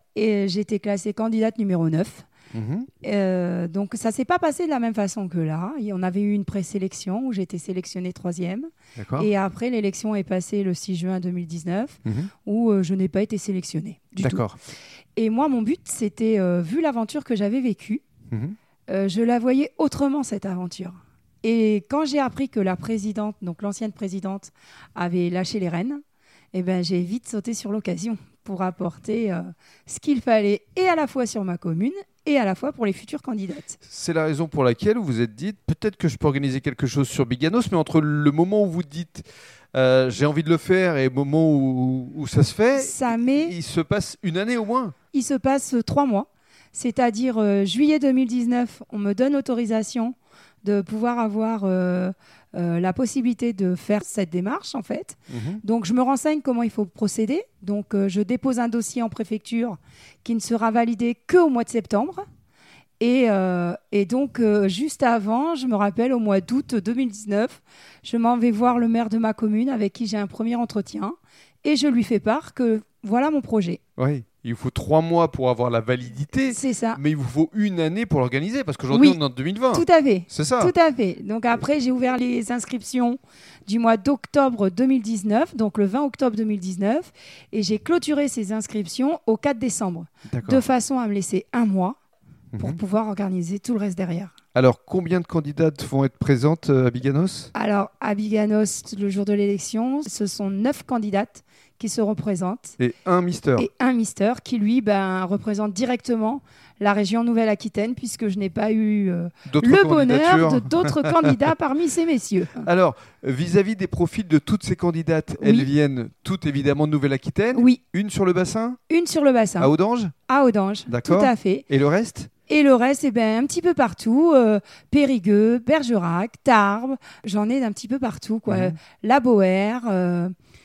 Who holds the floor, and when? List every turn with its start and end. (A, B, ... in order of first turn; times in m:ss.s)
0:00.1-0:02.2 A
0:02.5-0:02.9 B
0:03.0-0:14.4 A
0:09.0-0:09.3 B
0:12.0-0:12.3 B
0:14.2-0:14.6 B
0:15.2-0:18.0 A
0:18.3-0:18.6 B
0:18.9-0:26.0 A
0:26.5-0:33.8 A
0:33.8-0:44.9 B
0:42.7-0:43.5 A
0:45.1-1:02.2 A
0:55.3-0:55.6 B
1:03.0-1:13.8 A
1:14.0-1:20.7 B
1:16.5-1:17.0 A
1:18.9-1:19.2 A
1:19.7-1:32.0 A
1:30.3-1:30.6 B
1:32.6-1:34.3 A
1:34.5-1:37.5 B
1:37.5-1:42.8 A
1:42.8-1:43.7 B
1:43.6-1:52.7 A
1:49.4-1:51.4 B
1:52.6-1:58.8 B
1:55.4-1:55.7 A
1:57.5-1:57.8 A
1:58.9-1:59.7 A
1:59.6-2:00.1 B
2:00.3-2:01.7 A
2:00.9-2:02.3 B
2:02.5-2:10.3 A
2:08.5-2:08.8 B